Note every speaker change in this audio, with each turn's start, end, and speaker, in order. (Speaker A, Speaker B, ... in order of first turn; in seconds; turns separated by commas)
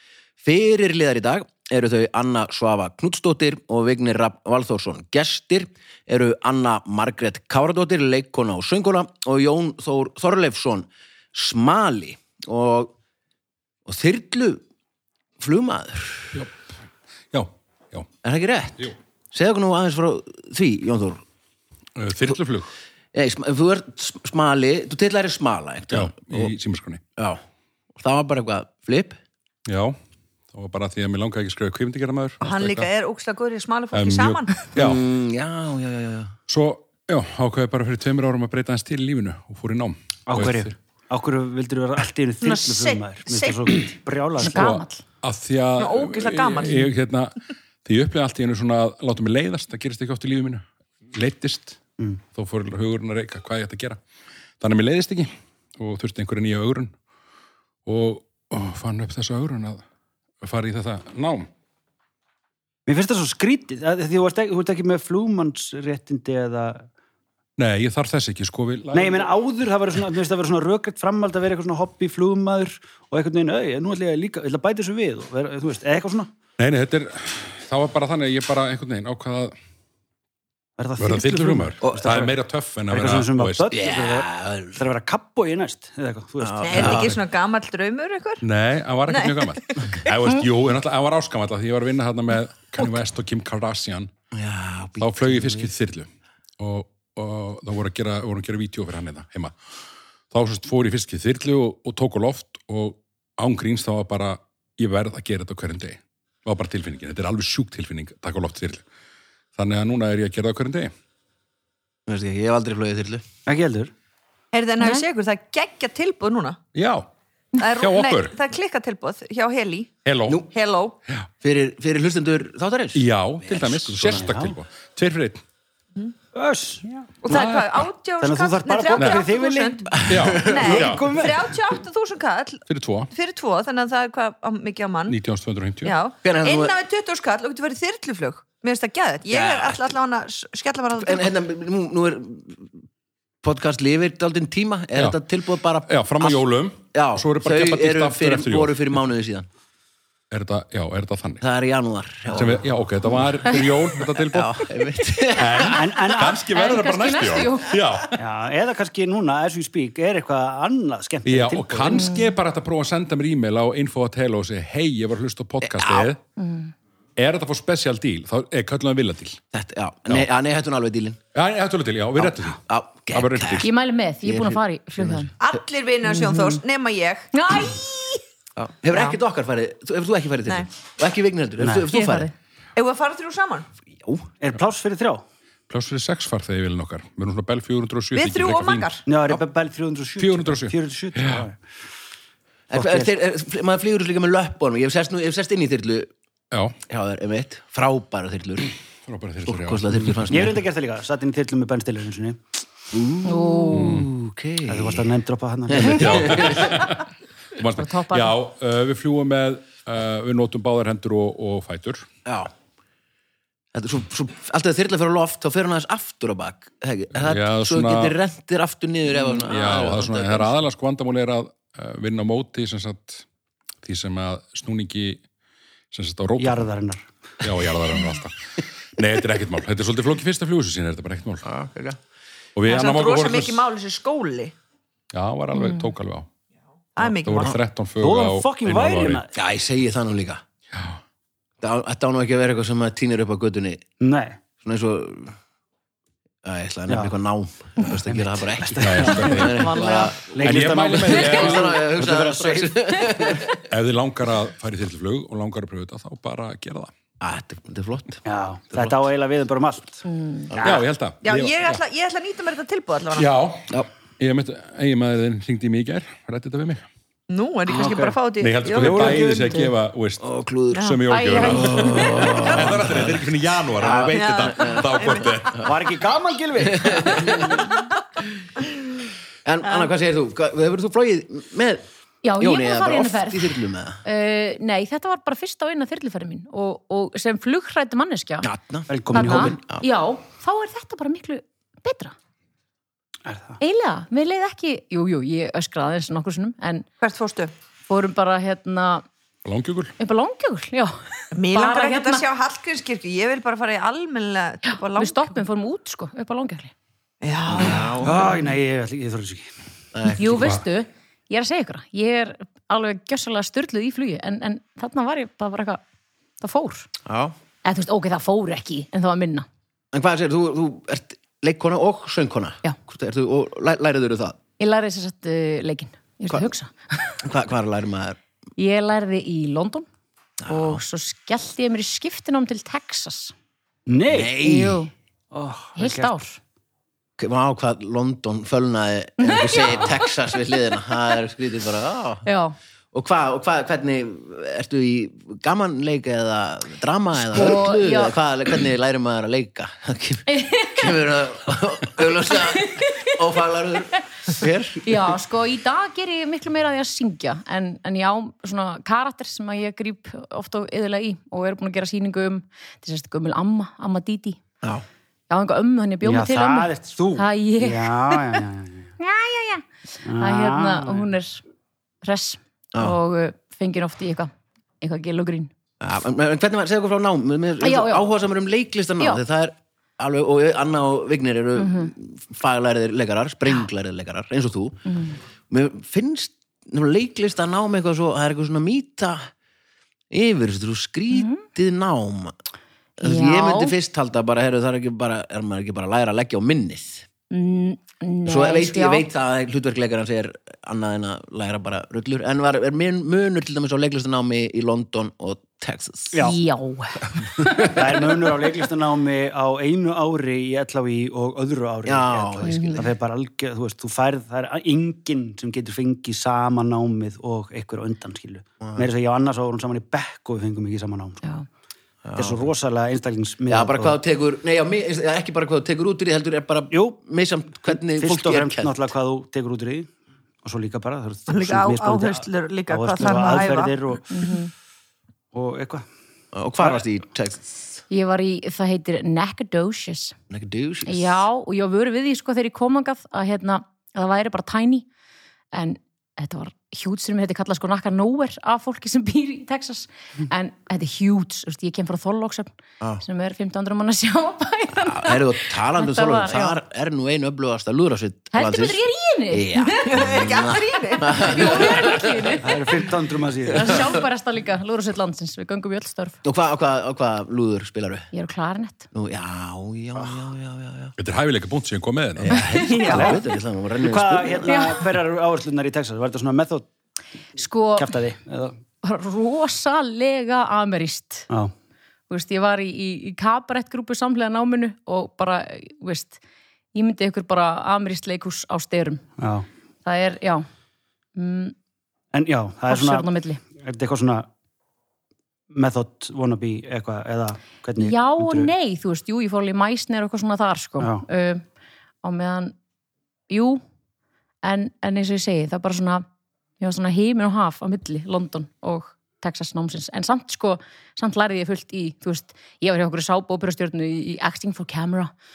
Speaker A: 0.4-12.9, Speaker A: 13.9-14.6, Speaker A: 15.4-16.4, Speaker B: 16.3-16.6, Speaker B: 17.3-18.1, Speaker A: 18.2-21.2, Speaker B: 22.0-22.7, Speaker A: 23.1-26.5, Speaker B: 25.9-27.0, Speaker A: 28.0-29.2, Speaker B: 29.7-30.0, Speaker B: 30.5-32.9, Speaker C: 32.4-34.7, Speaker B: 33.9-35.0, Speaker A: 34.8-36.4, Speaker B: 36.5-40.7, Speaker D: 40.3-44.8, Speaker C: 42.4-43.8, Speaker E: 44.4-45.0, Speaker B: 44.4-51.8, Speaker C: 45.8-46.9, Speaker B: 52.3-54.0, Speaker B: 54.6-56.9, Speaker B: 57.9-59.8, Speaker B: 60.4-61.5, Speaker D: 62.9-66.9, Speaker B: 67.6-69.3, Speaker D: 68.9-76.3, Speaker B: 76.6-79.5, Speaker D: 80.8-82.3, Speaker B: 81.0-83.7, Speaker A: 81.8-82.2, Speaker D: 82.9-87.1, Speaker A: 83.7-84.8, Speaker A: 86.4-87.2, Speaker C: 86.6-88.4, Speaker B: 88.4-94.1, Speaker C: 89.1-90.1, Speaker A: 94.3-95.7, Speaker B: 95.0-96.1, Speaker B: 96.6-99.6, Speaker B: 100.3-108.8, Speaker B: 109.5-110.9, Speaker A: 112.1-113.2, Speaker D: 113.5-113.9, Speaker C: 114.5-116.6, Speaker E: 114.8-115.0, Speaker B: 116.7-117.1, Speaker C: 117.5-120.0, Speaker B: 117.6-118.3, Speaker B: 120.0-120.5, Speaker C: 120.5-121.0, Speaker A: 121.4-124.3, Speaker B: 122.9-125.4, Speaker D: 124.1-124.6, Speaker D: 126.3-127.1, Speaker C: 127.2-135.2, Speaker B: 127.3-127.9, Speaker D: 128.2-131.4, Speaker B: 129.0-129.2, Speaker A: 129.9-130.9, Speaker B: 130.0-131.2, Speaker B: 132.7-133.1, Speaker B: 135.1-136.0, Speaker C: 135.8-141.3, Speaker A: 136.2-136.8, Speaker A: 139.3-139.8, Speaker A: 140.9-142.8, Speaker A: 143.4-146.4, Speaker B: 145.9-149.0, Speaker A: 146.9-149.5, Speaker B: 150.3-151.4, Speaker A: 151.4-155.8, Speaker B: 152.3-158.2, Speaker D: 155.6-156.5, Speaker E: 156.3-157.8, Speaker D: 158.2-162.1, Speaker B: 161.2-166.2, Speaker E: 161.9-162.3, Speaker A: 165.6-166.1, Speaker E: 166.4-166.7, Speaker B: 167.2-169.4, Speaker A: 169.5-171.2, Speaker B: 171.3-172.6, Speaker A: 172.2-173.7, Speaker B: 173.1-173.7, Speaker E: 173.6-175.3, Speaker A: 174.2-175.3, Speaker C: 175.4-177.8, Speaker E: 176.1-176.6, Speaker E: 177.3-178.2, Speaker A: 178.6-182.3, Speaker C: 178.9-179.2, Speaker D: 181.6-181.9, Speaker E: 181.9-182.3, Speaker C: 182.8-183.7, Speaker A: 184.0-184.3, Speaker D: 184.4-185.2, Speaker B: 185.7-188.9, Speaker C: 188.2-189.0, Speaker D: 189.1-191.6, Speaker B: 190.2-191.4, Speaker A: 192.7-196.1, Speaker D: 192.7-193.1, Speaker B: 196.5-196.8, Speaker A: 196.9-198.7, Speaker B: 199.1-200.4, Speaker A: 199.4-200.6, Speaker D: 200.3-202.4, Speaker A: 202.9-205.1, Speaker E: 203.2-204.0, Speaker B: 203.7-204.1, Speaker D: 204.7-206.3, Speaker A: 205.7-206.8, Speaker B: 205.8-212.1, Speaker E: 207.8-208.3, Speaker A: 212.2-212.5, Speaker A: 213.7-220.6, Speaker B: 217.2-218.2, Speaker B: 219.2-223.3, Speaker B: 223.8-225.2, Speaker B: 225.9-226.7, Speaker D: 226.4-227.1, Speaker B: 227.4-231.5, Speaker A: 231.4-232.0, Speaker B: 232.6-233.6, Speaker C: 232.7-234.5, Speaker B: 235.1-236.3, Speaker E: 235.5-235.9, Speaker C: 237.0-237.6, Speaker B: 237.0-239.2, Speaker D: 238.0-239.3, Speaker A: 239.3-240.4, Speaker A: 241.6-243.8, Speaker D: 244.0-244.4, Speaker A: 244.6-245.4, Speaker A: 246.4-253.6, Speaker D: 246.9-247.1, Speaker D: 248.3-249.4, Speaker B: 248.8-249.8, Speaker E: 249.4-250.1, Speaker D: 250.3-253.2, Speaker B: 250.4-251.8, Speaker B: 253.6-256.9, Speaker A: 257.2-259.0, Speaker D: 258.2-260.0, Speaker E: 260.1-260.5, Speaker A: 260.5-260.8, Speaker B: 260.6-261.8, Speaker C: 260.6-263.3, Speaker B: 263.1-266.9, Speaker C: 267.3-269.6, Speaker D: 267.7-268.2, Speaker B: 268.4-275.7, Speaker D: 268.7-269.7, Speaker A: 270.2-273.2, Speaker C: 270.8-271.6, Speaker E: 271.1-272.3, Speaker A: 273.8-275.6, Speaker C: 273.9-275.3, Speaker D: 275.6-277.7, Speaker A: 276.6-277.7, Speaker A: 279.4-281.9, Speaker E: 282.2-288.5, Speaker A: 282.4-284.0, Speaker A: 288.4-289.9, Speaker D: 288.9-289.6, Speaker E: 289.1-292.1, Speaker D: 293.2-293.6, Speaker E: 293.6-296.9, Speaker C: 297.0-297.5, Speaker E: 297.9-299.1, Speaker B: 299.4-299.9, Speaker E: 300.0-302.2, Speaker C: 301.3-305.3, Speaker E: 304.7-306.7, Speaker C: 307.2-308.0, Speaker A: 307.5-308.4, Speaker D: 308.0-309.5, Speaker A: 309.9-310.6, Speaker E: 310.1-315.8, Speaker E: 316.4-316.9, Speaker A: 317.1-317.4, Speaker E: 317.6-319.4, Speaker A: 319.9-324.4, Speaker E: 324.6-327.2, Speaker A: 327.2-328.2, Speaker E: 328.6-329.9, Speaker A: 330.4-330.8, Speaker E: 330.5-333.3, Speaker D: 333.9-334.7, Speaker A: 334.1-334.8, Speaker E: 334.4-334.9, Speaker D: 335.3-336.1, Speaker E: 335.8-336.4, Speaker A: 337.2-342.3, Speaker E: 339.2-340.4, Speaker E: 342.3-342.6, Speaker A: 342.9-355.2, Speaker E: 347.3-348.2, Speaker E: 350.3-351.1, Speaker E: 352.3-353.1, Speaker E: 354.8-364.4, Speaker E: 365.3-368.5, Speaker D: 366.0-368.9, Speaker E: 369.0-371.4, Speaker D: 370.1-371.1, Speaker E: 372.0-375.5, Speaker A: 375.8-384.9, Speaker E: 377.6-378.1, Speaker E: 381.6-381.9, Speaker E: 384.9-385.2, Speaker A: 385.5-389.3, Speaker A: 390.1-392.3, Speaker E: 391.1-391.4, Speaker A: 393.0-397.1, Speaker E: 393.0-393.8, Speaker E: 397.3-399.1, Speaker A: 398.2-406.3, Speaker D: 406.1-406.4, Speaker E: 406.2-407.5, Speaker A: 407.4-407.8, Speaker D: 407.6-421.2, Speaker A: 411.9-412.9, Speaker E: 412.4-412.8, Speaker A: 418.6-418.9, Speaker A: 422.0-422.4, Speaker D: 422.2-424.0, Speaker A: 423.5-428.9, Speaker D: 426.7-427.0, Speaker D: 427.6-429.9, Speaker D: 430.4-434.3, Speaker C: 431.3-433.8, Speaker E: 434.1-434.5, Speaker D: 435.3-435.9, Speaker A: 436.3-437.5, Speaker E: 437.9-440.2, Speaker A: 440.3-441.2, Speaker E: 440.9-444.9, Speaker E: 445.5-452.5, Speaker E: 453.0-456.6, Speaker A: 454.8-458.8, Speaker E: 458.3-462.9, Speaker A: 459.3-462.4, Speaker C: 459.9-461.8, Speaker D: 462.4-463.9, Speaker E: 463.5-466.2, Speaker A: 466.2-468.1, Speaker E: 468.1-468.9, Speaker A: 468.9-471.0, Speaker B: 471.0-472.5, Speaker A: 472.2-474.7, Speaker E: 472.4-473.1, Speaker C: 472.6-473.1, Speaker D: 472.9-473.2, Speaker D: 473.8-476.7, Speaker E: 474.5-474.8, Speaker E: 477.4-477.9, Speaker D: 477.8-478.6, Speaker E: 478.8-481.3, Speaker E: 482.1-486.2, Speaker E: 486.8-489.1, Speaker D: 489.2-489.5, Speaker E: 489.9-490.5, Speaker E: 491.2-491.6, Speaker D: 492.1-494.3, Speaker E: 492.7-493.4, Speaker D: 495.5-498.5, Speaker E: 497.8-501.4, Speaker D: 500.8-501.1, Speaker E: 502.0-502.5, Speaker E: 503.3-503.6, Speaker E: 504.4-506.1, Speaker E: 506.6-515.1